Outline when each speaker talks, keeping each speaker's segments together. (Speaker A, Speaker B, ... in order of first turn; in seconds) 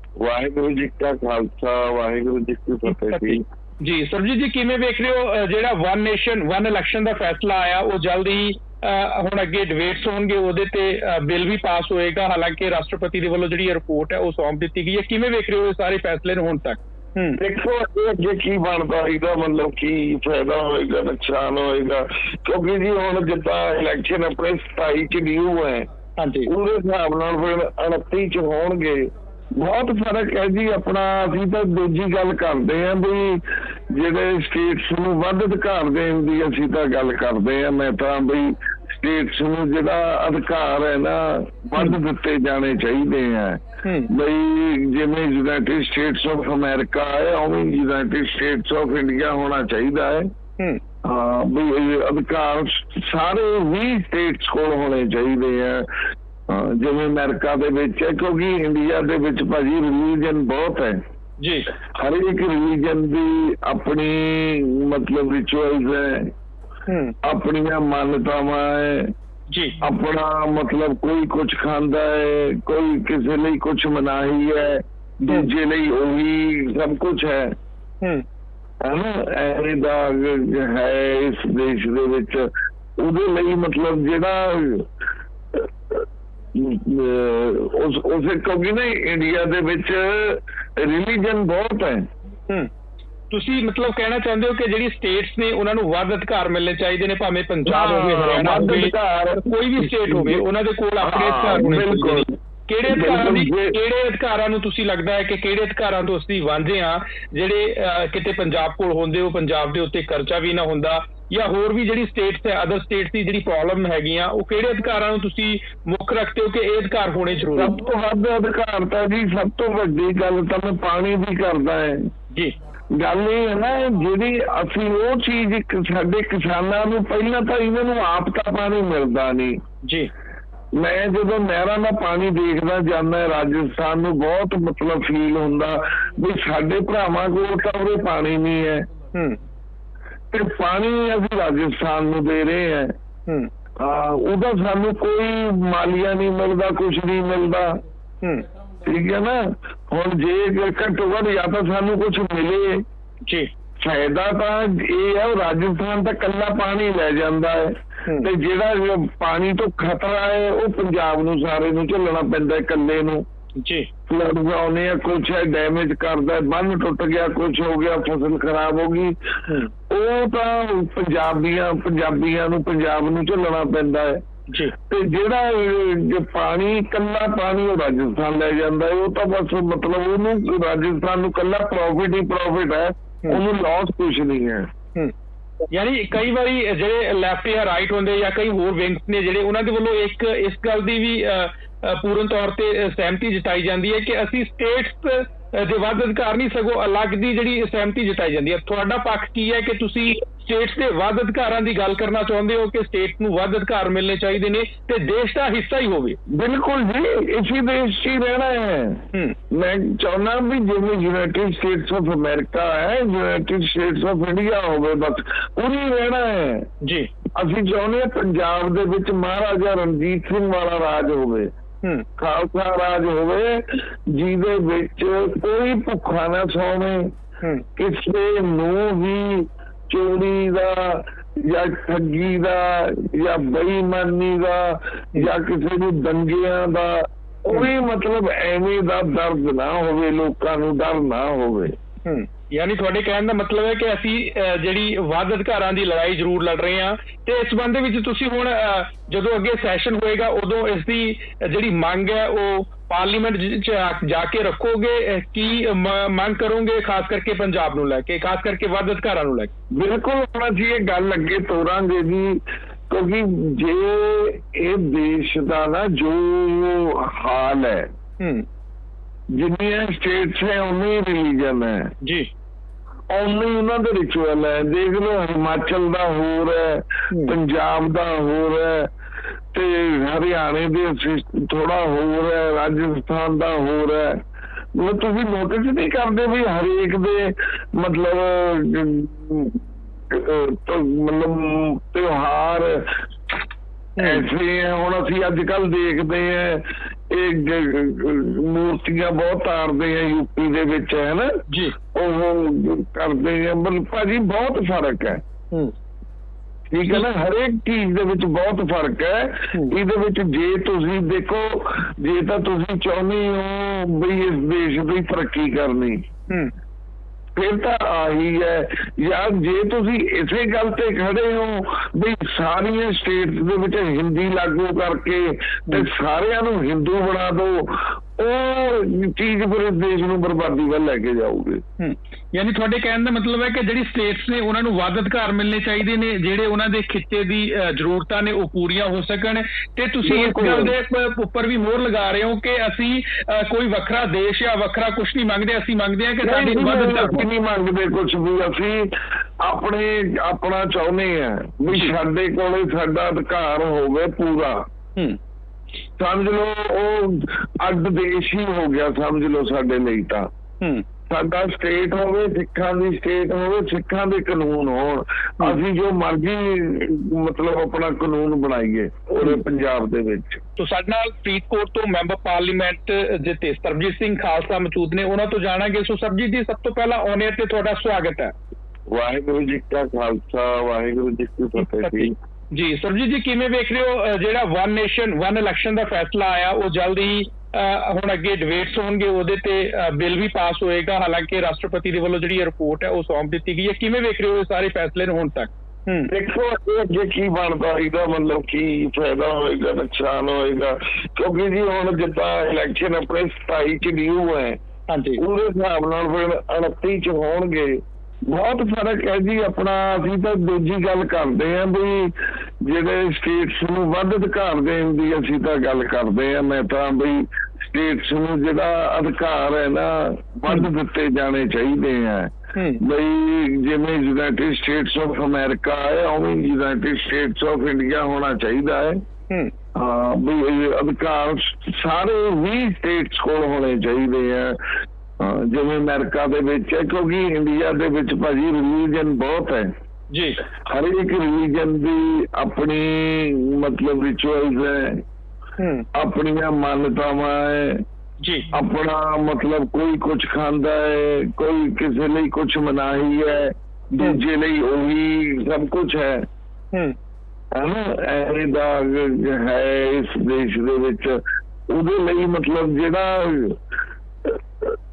Speaker A: 0.2-3.4, 17.4-25.9, 26.4-50.3, 51.0-55.9, 56.5-61.0, 61.9-66.3, 67.2-69.1, 69.8-77.5, 78.8-84.8, 85.5-86.0, 86.5-92.1, 97.7-100.4, 101.0-102.3, 102.9-103.8, 117.5-122.1, 122.9-129.6, 130.8-138.9, 140.3-142.9, 143.8-147.8, 148.8-152.8, 153.8-163.2, 164.1-169.2, 169.9-174.2, 174.9-184.7, 206.3-216.7, 217.3-221.5, 222.2-227.1, 227.8-241.7, 259.7-267.9, 269.4-271.9, 273.1-278.9, 279.5-284.2, 284.7-293.0, 294.0-301.4, 301.9-305.2, 306.7-316.0, 317.4-331.6, 340.0-340.7, 346.2-354.6, 356.0-360.3, 361.1-370.4, 378.9-382.1, 396.1-404.6, 405.2-412.1, 412.6-429.0, 429.7-434.6, 435.2-439.7, 440.6-445.0, 445.9-447.8, 448.5-456.2, 457.5-463.6, 464.2-464.7
Speaker B: 2.9-17.4, 26.2-26.5, 61.4-61.7, 66.9-67.1, 69.5-69.8, 93.3-117.8, 129.8-130.1, 163.6-163.9, 185.7-206.2, 216.8-217.1, 242.1-259.5, 268.2-268.4, 272.0-272.3, 277.1-277.4, 294.0-294.2, 301.5-301.7, 331.8-347.2, 370.6-378.3, 381.6-396.1, 404.9-405.2, 422.5-422.8, 440.1-440.4, 445.6-445.9, 448.2-448.5